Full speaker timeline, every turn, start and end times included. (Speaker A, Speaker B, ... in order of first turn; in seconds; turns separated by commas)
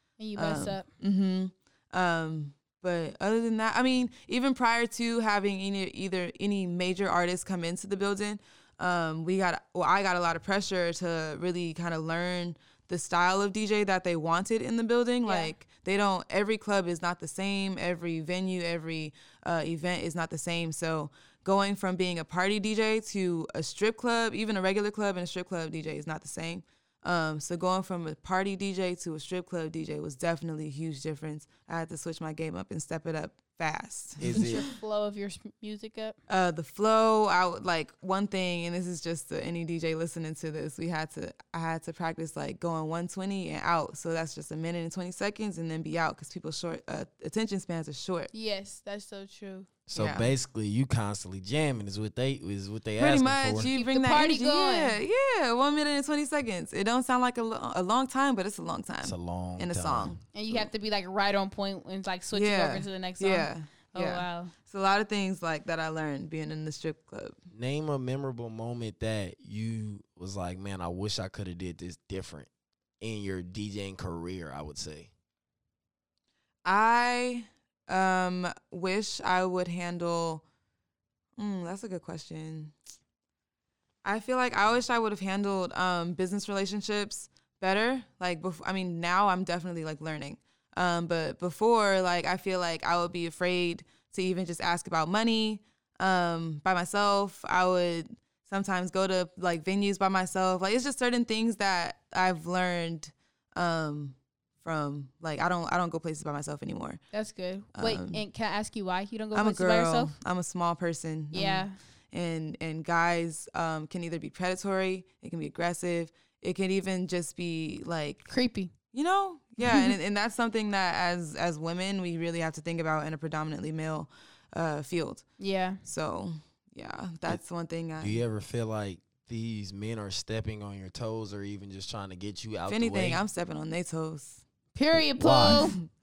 Speaker A: 0.2-0.9, Speaker B: 0.4-34.6, Speaker A: 15.2-15.6, Speaker C: 34.2-34.7, Speaker A: 34.3-36.2, Speaker B: 36.3-48.3, Speaker A: 48.3-49.7, Speaker C: 49.9-53.7, Speaker B: 49.9-50.3, Speaker B: 53.0-60.6, Speaker A: 53.7-55.0, Speaker C: 59.0-60.2, Speaker A: 60.3-64.5, Speaker B: 62.3-67.4, Speaker C: 67.5-72.5, Speaker C: 73.0-75.1, Speaker B: 76.7-80.4, Speaker B: 81.4-82.7, Speaker B: 84.0-107.0, Speaker A: 107.1-110.2, Speaker B: 107.8-108.2, Speaker B: 109.3-118.3, Speaker A: 111.3-111.8, Speaker A: 118.3-118.7, Speaker B: 118.9-125.2, Speaker A: 119.6-119.9, Speaker A: 125.4-125.8, Speaker B: 125.8-128.2, Speaker C: 128.0-133.2, Speaker B: 132.7-134.4, Speaker A: 134.8-135.8, Speaker C: 134.9-135.7